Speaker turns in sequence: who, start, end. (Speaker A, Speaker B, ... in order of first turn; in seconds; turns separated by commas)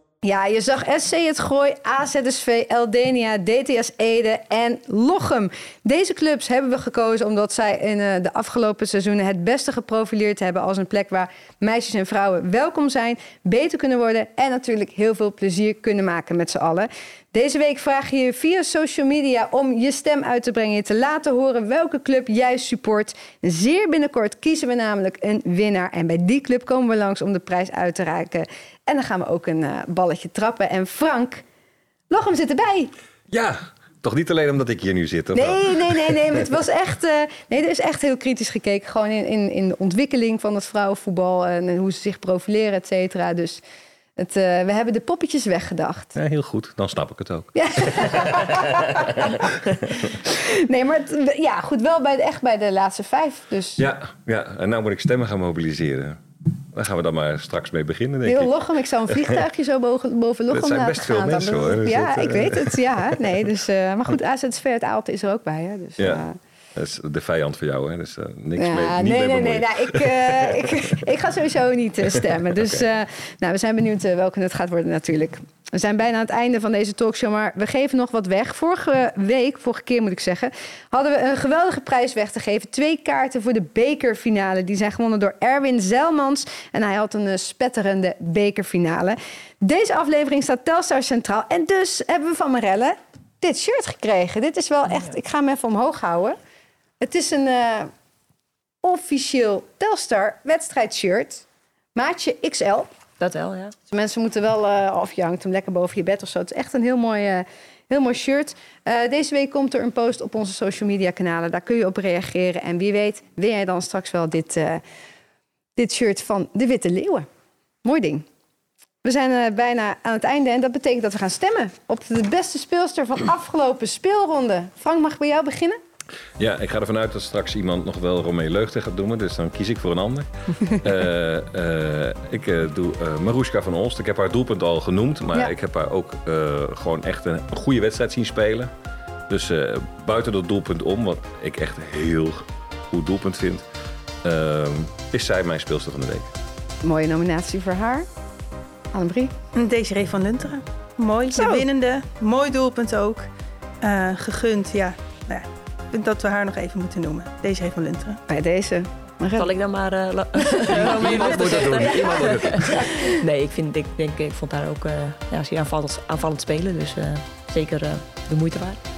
Speaker A: 0.2-31.4, Speaker A: 32.1-32.9, Speaker B: 33.3-36.5, Speaker A: 35.3-43.6, Speaker A: 44.2-46.1, Speaker B: 46.1-50.1, Speaker A: 47.5-49.4, Speaker A: 50.2-53.8, Speaker B: 53.8-56.2, Speaker B: 56.7-59.4, Speaker A: 58.2-66.3, Speaker B: 60.5-63.0, Speaker B: 66.0-70.6, Speaker A: 68.6-96.4, Speaker B: 72.5-72.8, Speaker C: 94.9-95.1, Speaker A: 97.0-97.9, Speaker A: 98.8-102.9, Speaker C: 103.2-103.7, Speaker A: 103.9-114.8, Speaker A: 115.8-117.3, Speaker A: 117.8-118.2, Speaker A: 119.0-125.8, Speaker B: 126.4-138.7, Speaker B: 139.3-143.6, Speaker B: 144.2-146.3, Speaker A: 146.8-148.1, Speaker A: 148.9-149.3, Speaker D: 149.5-153.2, Speaker A: 151.3-151.6, Speaker D: 153.8-158.2, Speaker A: 158.3-159.5, Speaker C: 159.3-168.8, Speaker B: 160.7-162.9, Speaker A: 161.8-162.3